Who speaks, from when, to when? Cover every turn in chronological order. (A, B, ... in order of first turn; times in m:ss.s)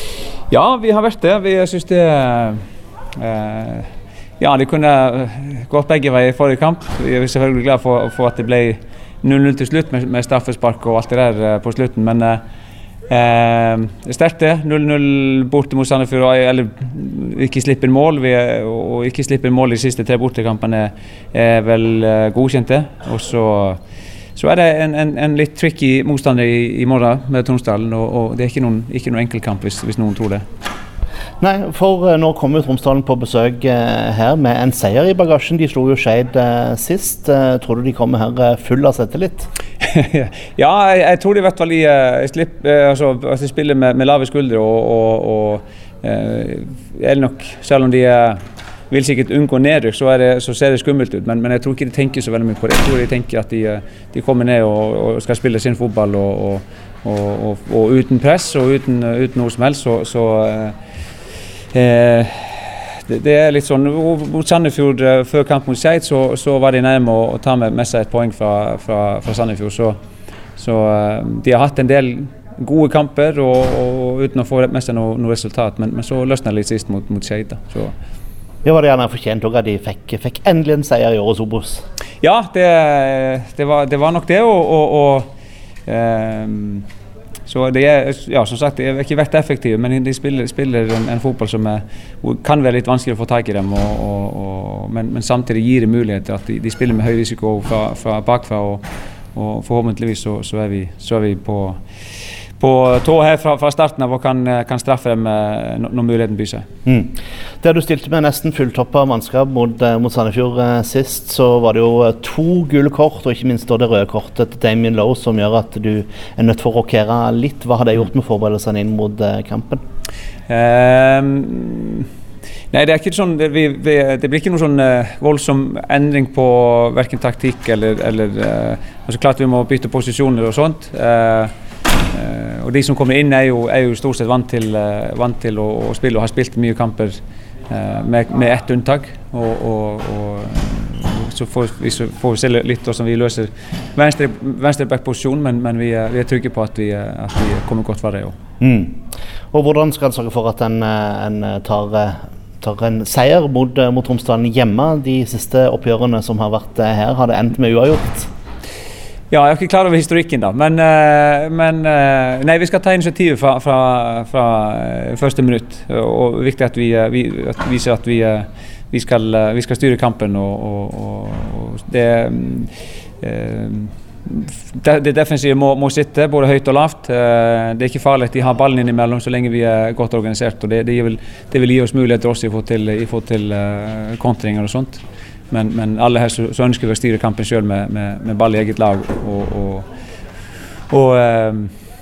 0:00.5-0:02.6 A
0:03.2-0:03.9 A
0:04.4-0:12.4 A
0:13.1-0:23.8 A
0:24.4-0:30.4 A
0:31.4-0:39.5 B
0:39.8-0:48.4 A
0:48.9-1:00.8 A
1:01.7-1:10.0 A
1:10.6-1:18.0 A
1:18.6-1:21.8 B
1:22.2-1:25.3 A
1:25.9-1:26.9 A
1:27.5-1:38.8 A
1:39.4-1:41.8 A
1:42.6-1:46.7 A
1:46.9-1:59.8 B
2:00.5-2:02.1 A
2:02.7-2:11.5 A
2:12.1-2:28.4 A
2:28.6-2:29.0 B
2:29.5-2:38.3 B
2:39.3-3:09.9 A
3:10.9-3:11.7 A